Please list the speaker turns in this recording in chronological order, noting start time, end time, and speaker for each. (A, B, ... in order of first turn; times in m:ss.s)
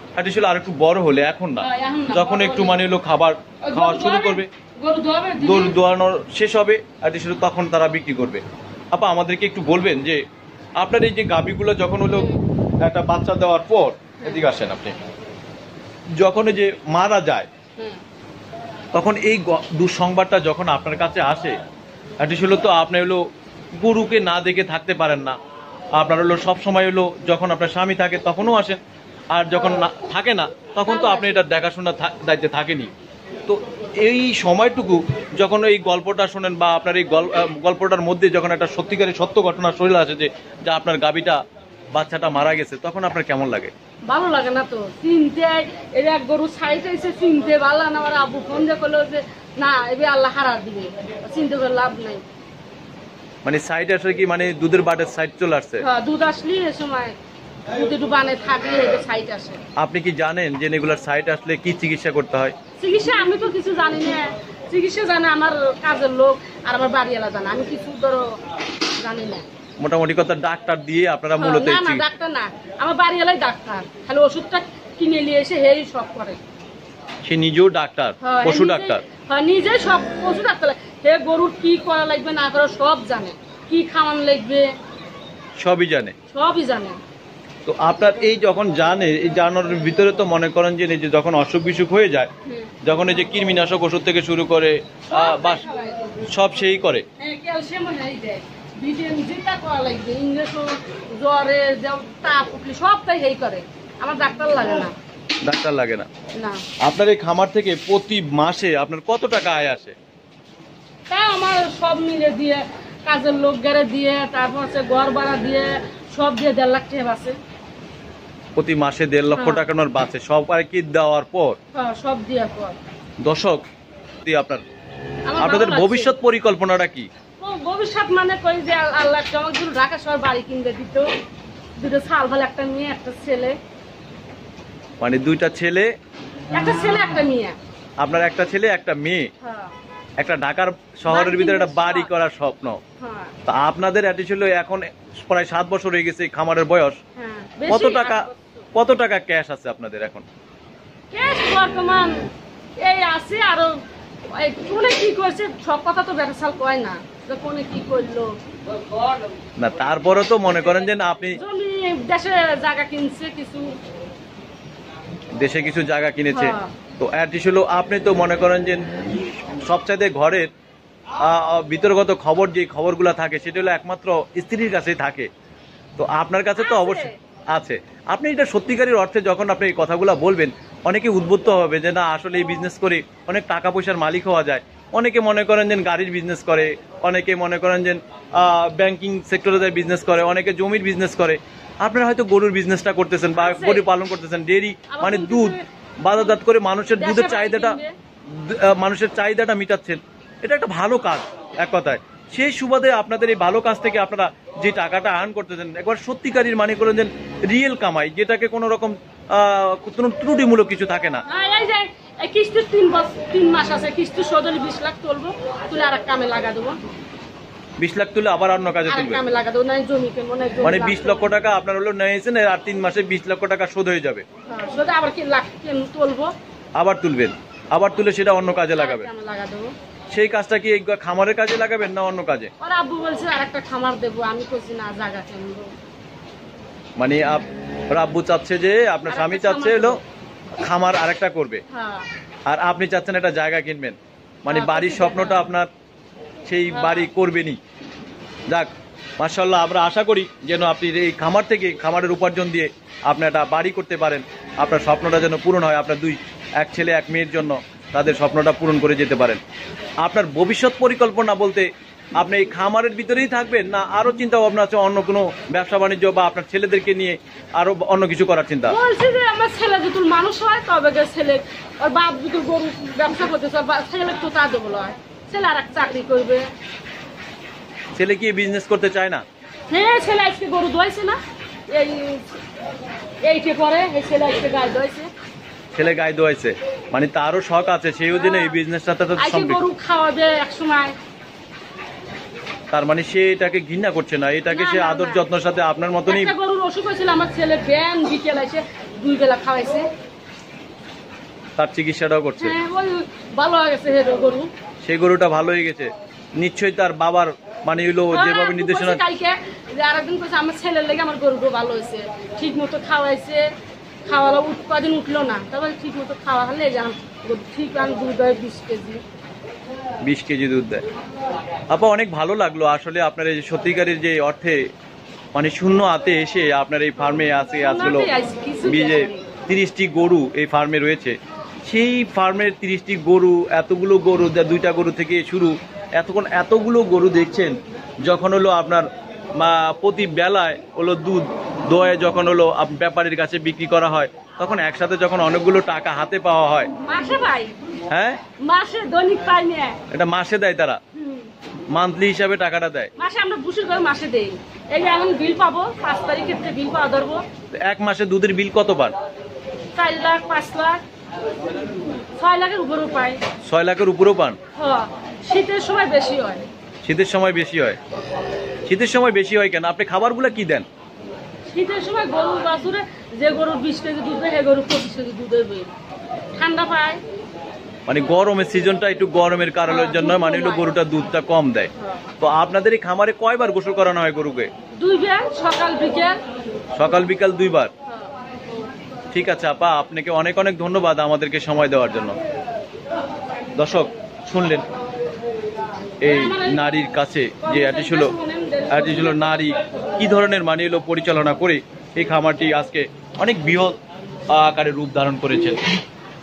0:00.2-0:04.5 A
0:01.6-0:02.9 B
0:03.6-0:05.8 B
0:05.4-0:10.2 A
0:10.8-0:12.3 A
0:12.0-0:12.4 B
0:12.8-0:15.0 A
0:16.2-0:17.5 A
0:18.9-0:21.5 A
0:22.2-0:23.2 A
0:23.7-0:25.4 A
0:26.0-0:28.8 A
0:29.3-0:32.9 A
0:29.5-0:29.8 B
0:30.8-0:31.4 B
0:33.4-0:41.4 A
0:41.9-0:43.7 A
0:44.1-0:52.2 B
0:53.4-0:55.8 A
0:55.8-0:57.2 B
0:57.7-0:59.6 B
0:59.8-1:02.5 A
1:02.8-1:08.4 B
1:09.0-1:09.4 B
1:09.8-1:12.0 A
1:11.4-1:16.4 B
1:17.2-1:19.0 A
1:18.2-1:24.7 B
1:25.6-1:26.1 A
1:26.3-1:27.0 B
1:27.6-1:32.3 A
1:32.4-1:32.8 B
1:32.8-1:35.6 A
1:35.1-1:36.2 B
1:36.3-1:37.0 A
1:37.2-1:44.9 B
1:45.4-1:46.1 A
1:46.4-1:46.6 B
1:46.8-1:49.9 A
1:51.1-1:57.4 B
1:58.6-2:01.6 A
1:59.3-1:59.6 B
2:01.7-2:02.8 B
2:03.2-2:03.6 A
2:04.2-2:04.6 A
2:05.3-2:06.1 B
2:05.4-2:07.1 A
2:07.4-2:11.1 B
2:11.8-2:13.6 B
2:15.0-2:15.9 A
2:16.5-2:17.6 B
2:18.0-2:19.2 A
2:19.4-2:19.7 B
2:20.2-2:22.8 A
2:21.1-2:22.1 B
2:23.0-2:23.3 B
2:23.4-2:27.0 A
2:27.2-2:28.4 B
2:27.7-2:30.2 A
2:31.1-2:32.2 B
2:32.8-2:38.3 B
2:39.6-2:41.4 A
2:41.3-2:43.7 B
2:45.4-2:48.8 A
2:46.3-2:46.7 B
2:49.6-2:50.5 A
2:51.2-2:55.3 A
2:56.0-3:31.2 A
2:56.5-2:57.1 B
3:13.4-3:13.8 B
3:14.9-3:16.4 B
3:17.0-3:17.9 B
3:31.3-3:36.8 B
3:37.8-3:39.2 A
3:38.8-3:41.3 B
3:40.6-3:44.2 A
3:44.5-3:46.3 B
3:46.8-3:49.1 A
3:48.7-3:49.7 B
3:50.1-3:52.5 A
3:52.6-3:55.7 B
3:57.0-4:00.0 A
3:59.1-4:00.0 B
4:00.6-4:01.6 A
4:01.7-4:02.1 B
4:02.5-4:05.7 A
4:04.5-4:05.5 B
4:06.5-4:07.6 A
4:06.7-4:07.1 B
4:08.5-4:19.4 A
4:20.0-4:28.8 A
4:28.7-4:36.5 B
4:38.0-4:39.2 A
4:39.7-4:42.2 B
4:43.2-4:45.1 B
4:45.7-4:49.6 A
4:48.1-4:48.6 B
4:49.2-4:51.0 B
4:52.7-4:56.3 A
4:54.5-4:55.2 B
4:56.1-4:59.9 B
5:01.6-5:02.5 A
5:02.4-5:04.5 B
5:04.8-5:09.0 A
5:08.1-5:13.5 B
5:14.0-5:19.0 B
5:20.0-5:20.8 A
5:21.7-5:24.6 A
5:25.3-5:28.1 A
5:27.0-5:29.2 B
5:28.6-5:46.7 A
5:46.8-5:47.6 B
5:47.9-5:48.2 A
5:48.4-5:49.8 B
5:49.9-5:50.8 A
5:51.0-5:51.3 B
5:51.7-5:52.9 A
5:53.0-5:57.2 B
5:57.5-5:58.9 A
5:59.7-6:00.8 B
6:02.2-6:03.2 B
6:03.4-6:04.4 A
6:04.6-6:06.4 B
6:06.8-6:07.8 A
6:08.6-6:10.6 A
6:11.5-6:15.7 B
6:16.4-6:17.0 B
6:17.9-6:24.5 A
6:19.6-6:20.8 B
6:21.8-6:22.0 B
6:24.7-6:26.2 B
6:26.8-6:27.7 A
6:29.1-6:32.2 A
6:33.6-6:34.6 A
6:36.0-6:38.1 A
6:36.0-6:36.9 B
6:37.4-6:39.6 B
6:38.7-6:43.8 A
6:44.3-6:45.6 A